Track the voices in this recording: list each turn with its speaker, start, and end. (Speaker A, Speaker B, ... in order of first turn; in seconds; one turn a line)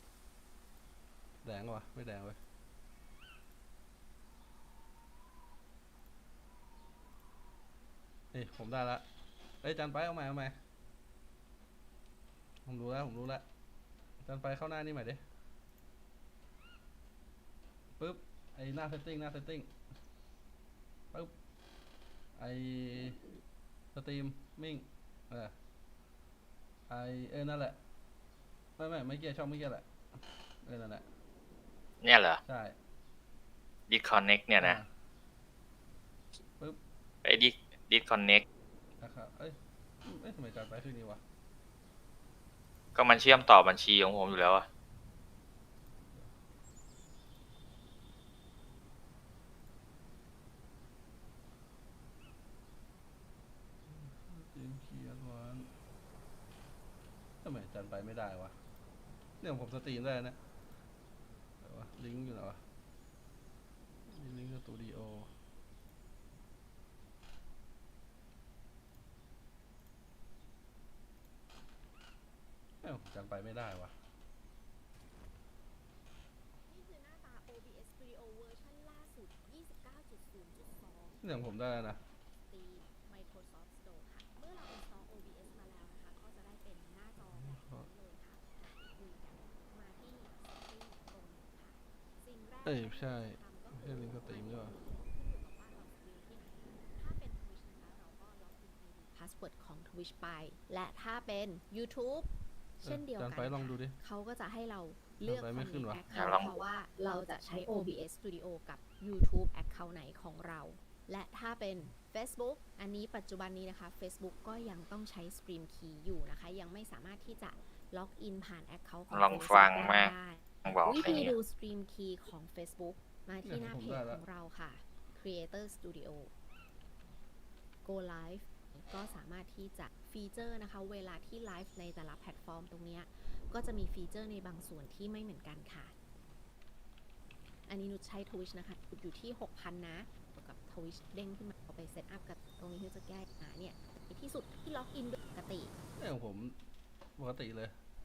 Speaker A: 1.4-2.4
Speaker A: 8.3-9.0
Speaker A: 9.6-10.6
Speaker A: 12.6-13.4
Speaker A: 14.2-15.2
Speaker A: 18.0-19.7
Speaker A: 22.4-23.2
Speaker A: 23.9-25.6
Speaker A: 26.9-27.8
Speaker A: 28.8-29.9
Speaker A: 30.6-31.1
Speaker B: 32.0-32.4
Speaker A: 32.4-32.8
Speaker B: 33.9-34.8
Speaker A: 34.6-34.9
Speaker B: 37.2-38.4
Speaker A: 39.0-41.2
Speaker B: 42.9-44.6
Speaker A: 53.9-55.7
Speaker A: 57.4-58.6
Speaker A: 59.4-60.4
Speaker A: 61.6-62.6
Speaker A: 64.0-65.3
Speaker A: 72.8-74.0
Speaker C: 76.6-126.3
Speaker A: 81.2-82.0
Speaker A: 87.2-87.9
Speaker A: 92.6-94.8
Speaker A: 102.8-104.0
Speaker A: 105.2-106.0
Speaker B: 106.1-106.5
Speaker B: 119.1-120.1
Speaker B: 120.6-121.3
Speaker A: 123.4-124.2
Speaker C: 127.8-135.9
Speaker C: 137.6-145.7
Speaker A: 146.0-146.6
Speaker A: 147.2-147.8